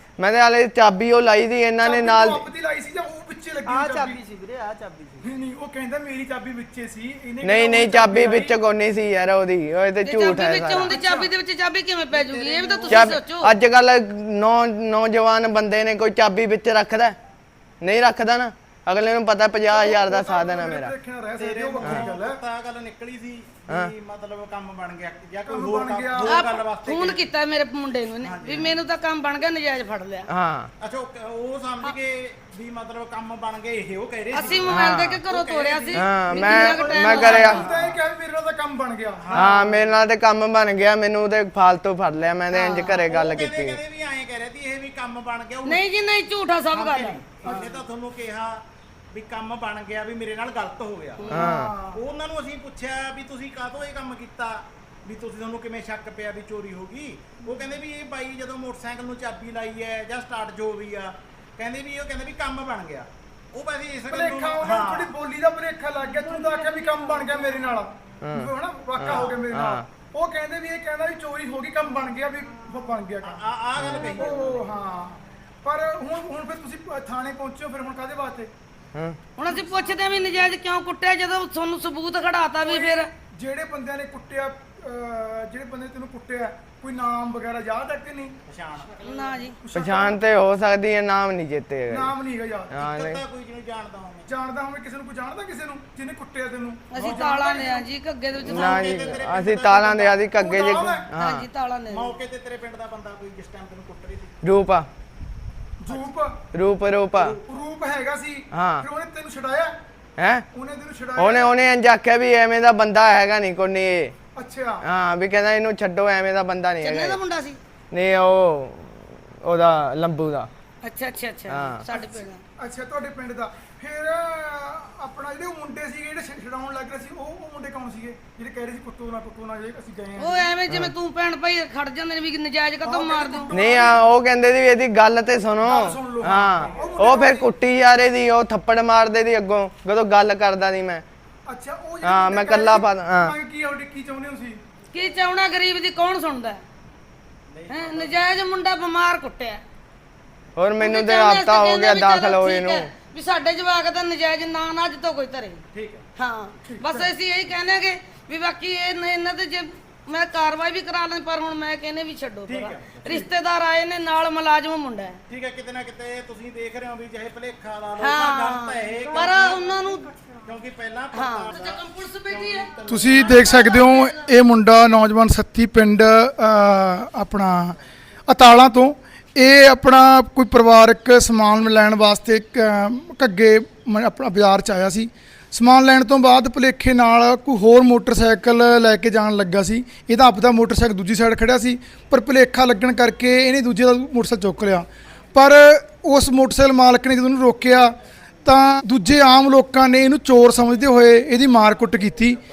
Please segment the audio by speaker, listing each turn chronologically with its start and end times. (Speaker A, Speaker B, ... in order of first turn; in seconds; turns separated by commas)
Speaker A: 0.2-2.4, Speaker B: 1.8-4.2, Speaker C: 3.7-5.2, Speaker B: 5.2-8.5, Speaker A: 7.4-10.9, Speaker D: 10.0-13.5, Speaker B: 10.8-11.3, Speaker C: 12.1-13.2, Speaker A: 12.9-17.1, Speaker A: 17.8-20.9, Speaker B: 19.7-22.4, Speaker C: 21.4-27.3, Speaker B: 25.4-26.4, Speaker D: 26.3-30.3, Speaker C: 28.2-28.8, Speaker A: 30.3-30.7, Speaker C: 30.8-38.0, Speaker D: 34.3-37.6, Speaker A: 34.7-35.2, Speaker A: 35.9-37.6, Speaker B: 36.4-39.5, Speaker C: 39.2-39.8, Speaker A: 39.3-43.8, Speaker D: 42.5-43.0, Speaker C: 42.8-45.9, Speaker D: 45.6-47.6, Speaker C: 46.7-51.3, Speaker B: 51.3-52.0, Speaker A: 51.3-51.7, Speaker C: 51.9-65.1, Speaker B: 64.1-73.4, Speaker A: 68.2-69.8, Speaker C: 69.0-69.3, Speaker C: 73.2-74.7, Speaker A: 73.8-74.1, Speaker B: 74.0-78.5, Speaker D: 79.4-83.1, Speaker B: 79.5-79.9, Speaker C: 79.7-80.3, Speaker B: 82.6-88.3, Speaker C: 88.5-89.5, Speaker D: 89.0-89.5, Speaker B: 89.6-90.2, Speaker A: 89.7-92.1, Speaker B: 91.9-92.8, Speaker A: 92.7-93.2, Speaker C: 92.7-94.3, Speaker B: 94.3-97.8, Speaker D: 96.9-98.8, Speaker C: 98.4-100.2, Speaker A: 98.4-101.5, Speaker B: 100.4-101.1, Speaker D: 101.2-102.1, Speaker C: 101.9-104.3, Speaker A: 104.4-104.9, Speaker B: 105.8-106.4, Speaker A: 106.5-107.4, Speaker B: 107.4-109.7, Speaker A: 108.5-108.8, Speaker A: 110.2-110.4, Speaker B: 110.5-111.5, Speaker A: 111.2-114.1, Speaker B: 114.3-114.8, Speaker A: 114.8-117.2, Speaker D: 116.8-117.6, Speaker A: 117.9-120.5, Speaker D: 120.8-122.4, Speaker A: 121.5-121.8, Speaker B: 121.9-130.5, Speaker D: 130.2-133.5, Speaker A: 130.7-130.9, Speaker B: 132.8-134.0, Speaker A: 133.5-141.0, Speaker B: 135.6-137.5, Speaker B: 141.5-144.6, Speaker A: 142.0-143.3, Speaker D: 144.9-146.6, Speaker C: 147.5-148.3, Speaker D: 147.7-149.6, Speaker A: 150.6-152.9, Speaker D: 150.8-155.6, Speaker C: 155.7-156.1, Speaker D: 156.2-165.2, Speaker B: 156.6-157.1, Speaker C: 162.4-163.3, Speaker C: 165.3-169.7, Speaker D: 168.0-170.1, Speaker B: 169.0-170.3, Speaker C: 170.4-173.6, Speaker D: 171.1-172.7, Speaker B: 172.9-177.8, Speaker D: 173.4-174.3, Speaker B: 178.3-202.4